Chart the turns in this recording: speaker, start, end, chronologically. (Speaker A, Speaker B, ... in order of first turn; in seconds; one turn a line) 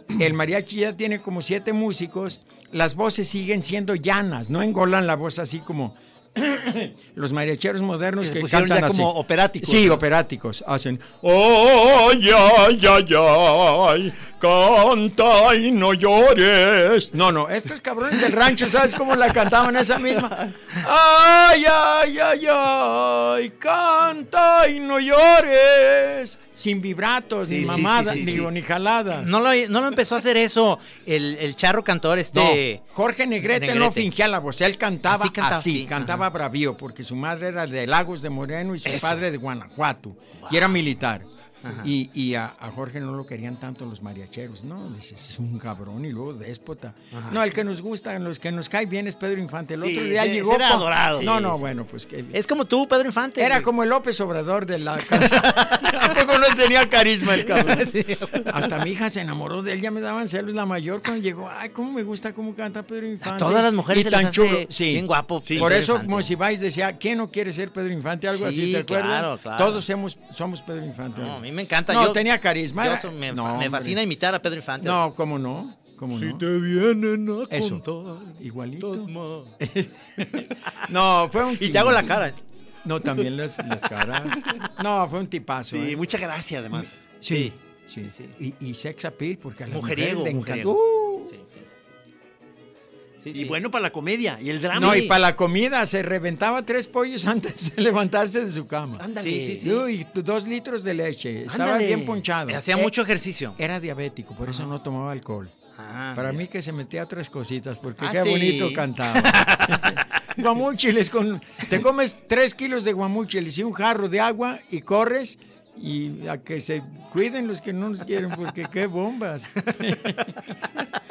Speaker A: 0.1-29.3
Speaker B: 8.2-10.0
Speaker B: 27.4-28.5
Speaker C: 27.6-28.4
Speaker C: 29.2-32.8
Speaker A: 32.3-52.4
Speaker C: 33.5-34.1
Speaker C: 35.1-36.2
Speaker C: 38.9-39.2
Speaker C: 40.4-40.8
Speaker C: 41.6-41.9
Speaker C: 47.1-47.5
Speaker B: 49.8-51.5
Speaker C: 52.3-53.7
Speaker A: 53.4-57.9
Speaker C: 55.1-56.2
Speaker C: 57.4-58.6
Speaker A: 58.5-74.0
Speaker C: 63.2-66.3
Speaker B: 65.5-65.7
Speaker C: 68.3-69.8
Speaker C: 71.2-72.2
Speaker C: 72.8-75.0
Speaker A: 74.8-76.5
Speaker C: 76.1-79.5
Speaker A: 77.5-77.8
Speaker A: 78.4-82.2
Speaker C: 80.2-80.5
Speaker C: 81.5-82.4
Speaker A: 82.8-86.0
Speaker B: 85.7-87.0
Speaker A: 87.2-91.3
Speaker C: 87.3-88.3
Speaker C: 89.7-90.8
Speaker C: 91.3-91.7
Speaker C: 93.2-93.6
Speaker B: 93.3-95.1
Speaker C: 94.7-95.2
Speaker A: 94.7-99.0
Speaker B: 99.0-99.8
Speaker C: 99.2-99.8
Speaker A: 99.6-102.9
Speaker B: 101.5-102.2
Speaker C: 102.5-103.6
Speaker A: 103.6-105.5
Speaker C: 105.8-106.4
Speaker A: 106.1-120.3
Speaker B: 108.0-108.8
Speaker C: 109.2-110.0